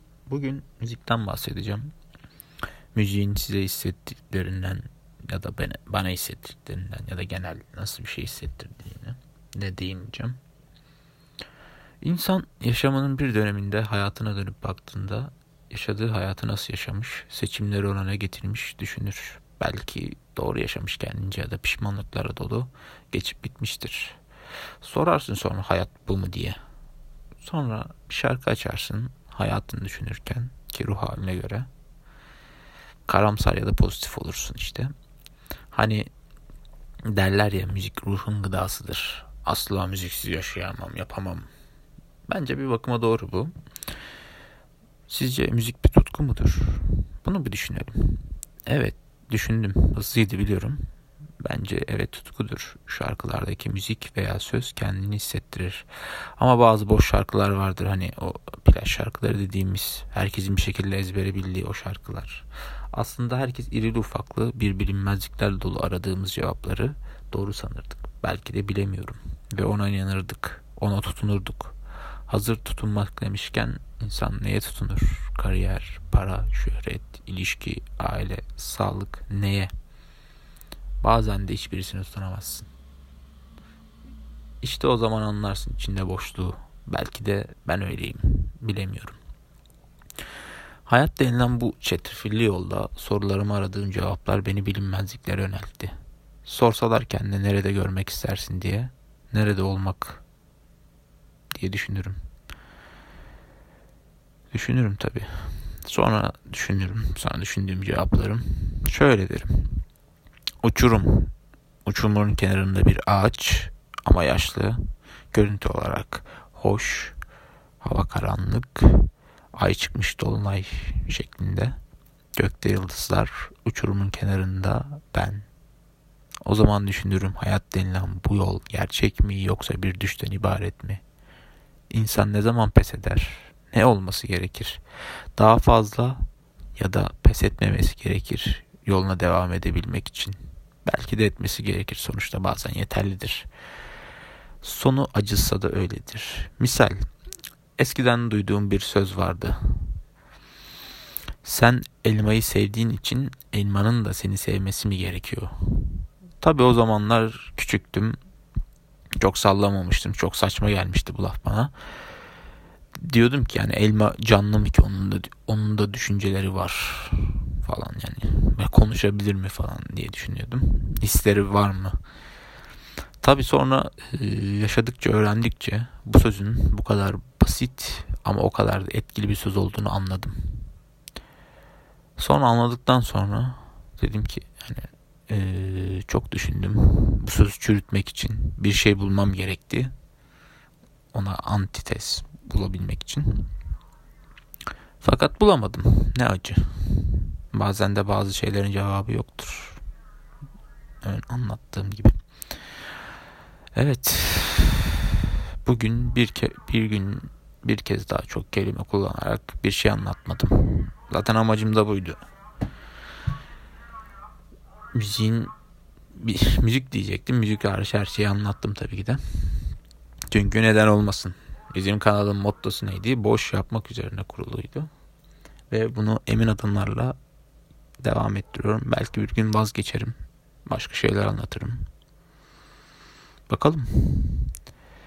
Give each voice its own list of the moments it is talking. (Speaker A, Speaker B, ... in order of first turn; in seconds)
Speaker A: 0.3-1.9, 2.9-10.4, 12.0-24.2, 24.8-26.6, 27.4-31.7, 33.1-34.9, 35.7-36.1, 37.0-41.5, 42.3-43.5, 45.1-50.8, 51.4-71.8, 72.3-79.7, 81.0-82.7, 84.6-89.2, 90.9-95.9, 96.5-100.2, 101.5-102.2, 104.5-109.8, 110.6-111.3, 111.9-114.8, 115.3-117.2, 117.8-121.8, 122.4-125.5, 126.5-131.0, 131.9-134.8, 135.4-136.2, 136.8-143.5, 144.6-147.0, 147.8-150.0, 151.4-158.2, 159.2-161.7, 163.0-172.0, 173.2-180.7, 182.2-189.9, 191.1-193.5, 195.0-199.8, 201.0-202.2, 203.8-212.2, 214.9-215.5, 216.1-219.7, 220.3-224.9, 225.7-227.2, 228.0-231.8, 233.5-234.5